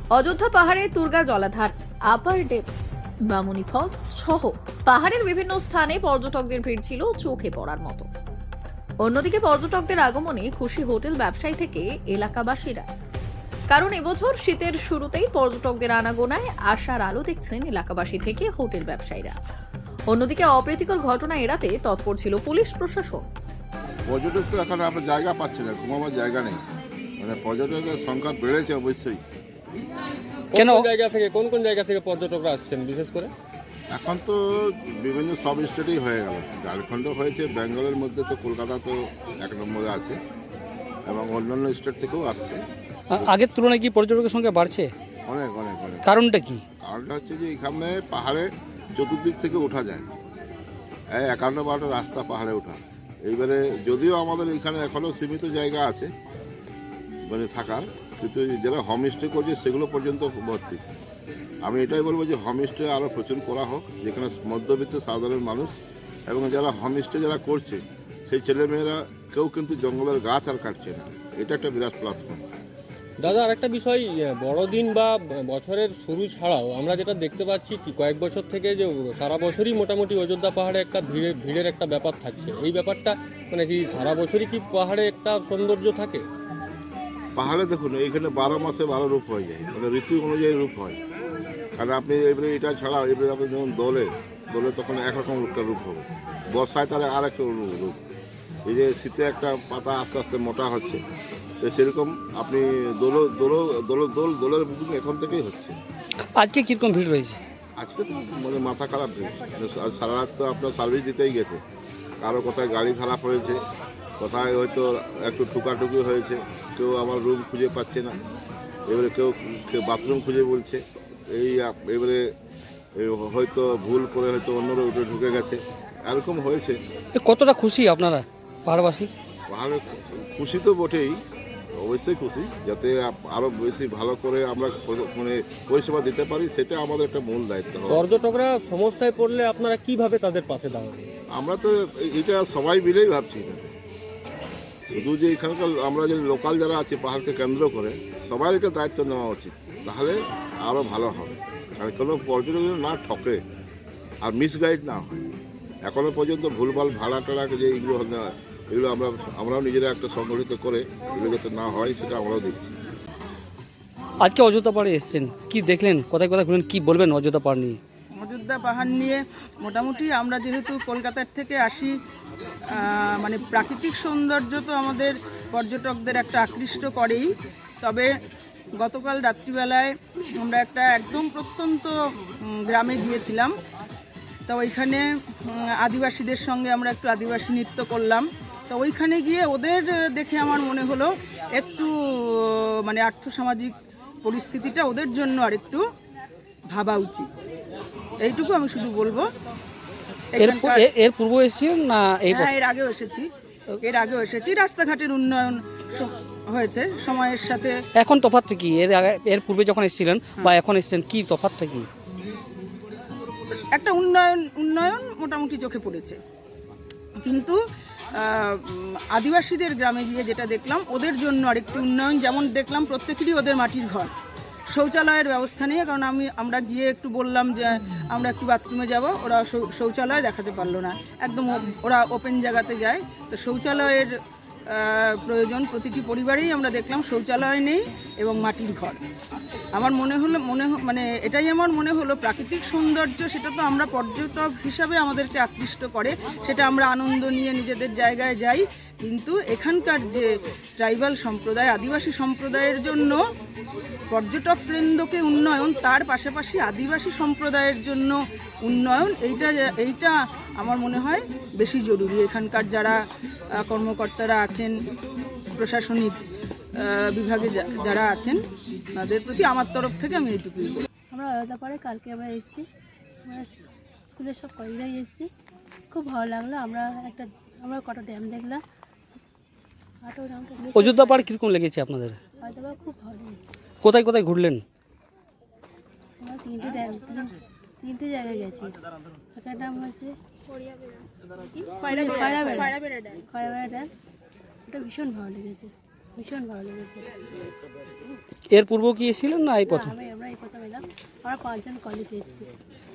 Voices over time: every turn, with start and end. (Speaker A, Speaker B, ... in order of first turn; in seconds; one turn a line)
Speaker A: 0.1-2.6
Speaker A: 3.3-8.1
Speaker A: 9.0-12.8
Speaker A: 13.7-19.4
Speaker A: 20.1-23.3
Speaker B: 24.1-26.6
Speaker B: 27.2-29.2
Speaker C: 30.5-33.3
Speaker D: 30.5-30.8
Speaker B: 33.9-40.2
Speaker B: 41.1-42.6
Speaker D: 43.1-44.9
Speaker B: 45.2-46.1
Speaker D: 46.0-46.6
Speaker B: 46.8-50.1
Speaker B: 51.1-56.1
Speaker B: 57.3-60.8
Speaker B: 61.6-65.7
Speaker B: 66.3-72.4
Speaker C: 73.2-86.2
Speaker B: 87.3-91.0
Speaker B: 91.8-98.0
Speaker B: 98.7-101.0
Speaker B: 101.6-105.8
Speaker D: 106.3-107.4
Speaker B: 107.8-111.6
Speaker B: 112.2-113.6
Speaker B: 114.2-118.2
Speaker B: 118.9-120.8
Speaker B: 121.3-122.2
Speaker B: 123.0-126.8
Speaker D: 127.2-129.1
Speaker B: 129.5-131.2
Speaker B: 131.8-138.1
Speaker C: 137.9-141.0
Speaker B: 141.3-143.7
Speaker B: 144.9-153.4
Speaker B: 154.2-155.2
Speaker B: 155.8-162.7
Speaker D: 164.2-167.8
Speaker E: 168.1-171.9
Speaker E: 172.7-178.1
Speaker E: 178.8-183.5
Speaker E: 184.5-195.8
Speaker E: 196.7-197.3
Speaker E: 198.2-199.3
Speaker E: 200.3-200.8
Speaker D: 200.4-202.5
Speaker E: 202.3-203.3
Speaker E: 203.8-207.8
Speaker D: 208.0-211.9
Speaker E: 213.7-216.2
Speaker E: 217.2-217.6
Speaker E: 218.1-224.1
Speaker E: 224.7-239.0
Speaker E: 239.7-253.3
Speaker E: 254.1-263.0
Speaker E: 263.5-264.7
Speaker E: 265.5-266.2
Speaker E: 266.8-270.8
Speaker F: 271.1-272.6
Speaker F: 274.2-275.3
Speaker F: 275.9-278.6
Speaker F: 280.0-281.3
Speaker D: 280.7-282.2
Speaker F: 282.4-283.4
Speaker D: 283.8-284.6
Speaker F: 286.2-288.7
Speaker F: 289.3-290.1
Speaker F: 291.7-293.9
Speaker E: 291.8-293.1
Speaker F: 294.7-297.1
Speaker D: 298.5-299.9
Speaker F: 299.6-302.5